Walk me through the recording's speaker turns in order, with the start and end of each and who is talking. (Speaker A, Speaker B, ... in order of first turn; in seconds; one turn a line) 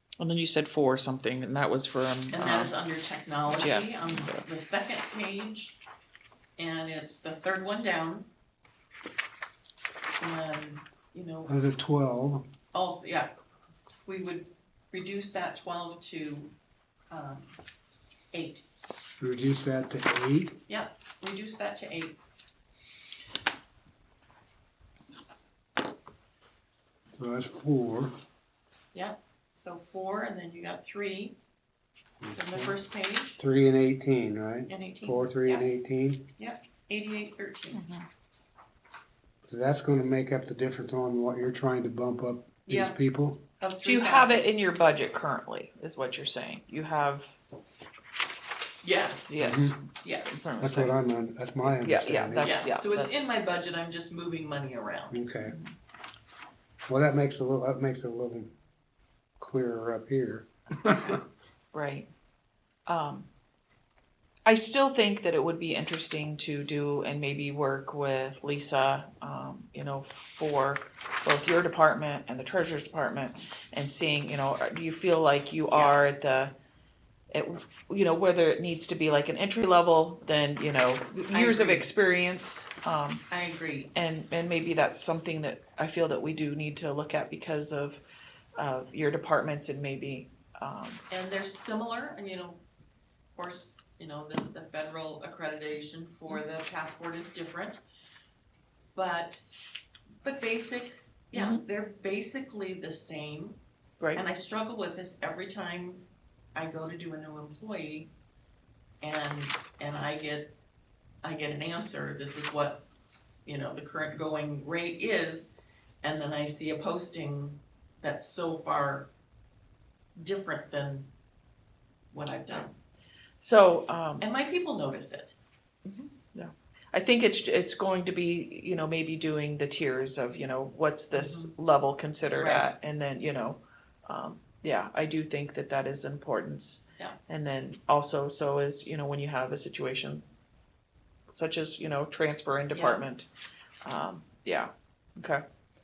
Speaker A: 0.2-2.7
Speaker B: 2.3-5.8
Speaker A: 3.5-4.4
Speaker B: 6.6-8.3
Speaker B: 10.2-11.5
Speaker C: 11.5-12.5
Speaker B: 12.7-13.3
Speaker B: 14.1-16.5
Speaker B: 17.1-17.6
Speaker B: 18.3-18.6
Speaker C: 19.2-20.6
Speaker B: 20.7-22.2
Speaker C: 27.1-28.2
Speaker B: 28.9-31.4
Speaker C: 32.2-32.8
Speaker B: 32.4-33.4
Speaker C: 33.4-36.3
Speaker B: 34.7-35.7
Speaker B: 36.4-37.8
Speaker A: 37.7-38.1
Speaker C: 39.4-43.4
Speaker B: 42.7-43.0
Speaker B: 43.6-44.5
Speaker A: 43.8-47.4
Speaker B: 48.8-50.5
Speaker A: 49.3-51.0
Speaker C: 49.4-49.8
Speaker C: 50.6-52.6
Speaker A: 51.6-53.2
Speaker B: 52.4-55.2
Speaker C: 55.1-55.5
Speaker A: 55.4-55.8
Speaker C: 56.9-58.5
Speaker C: 59.4-61.2
Speaker B: 60.7-61.2
Speaker A: 61.7-62.1
Speaker A: 62.9-63.3
Speaker A: 64.5-76.5
Speaker A: 77.3-83.2
Speaker B: 81.3-81.9
Speaker B: 83.3-83.9
Speaker A: 83.9-88.0
Speaker A: 88.6-91.0
Speaker B: 91.1-92.6
Speaker B: 93.4-97.8
Speaker B: 99.0-99.4
Speaker B: 100.2-103.6
Speaker A: 101.3-101.6
Speaker B: 104.2-106.0
Speaker B: 106.5-108.1
Speaker B: 109.0-110.5
Speaker B: 111.2-112.8
Speaker B: 113.5-115.5
Speaker B: 116.0-119.1
Speaker B: 120.2-121.1
Speaker B: 122.1-122.7
Speaker A: 123.4-124.3
Speaker B: 124.2-125.3
Speaker A: 125.8-140.2
Speaker B: 131.1-131.6
Speaker B: 132.4-132.7
Speaker A: 141.3-143.3
Speaker B: 142.7-143.1
Speaker A: 143.8-145.4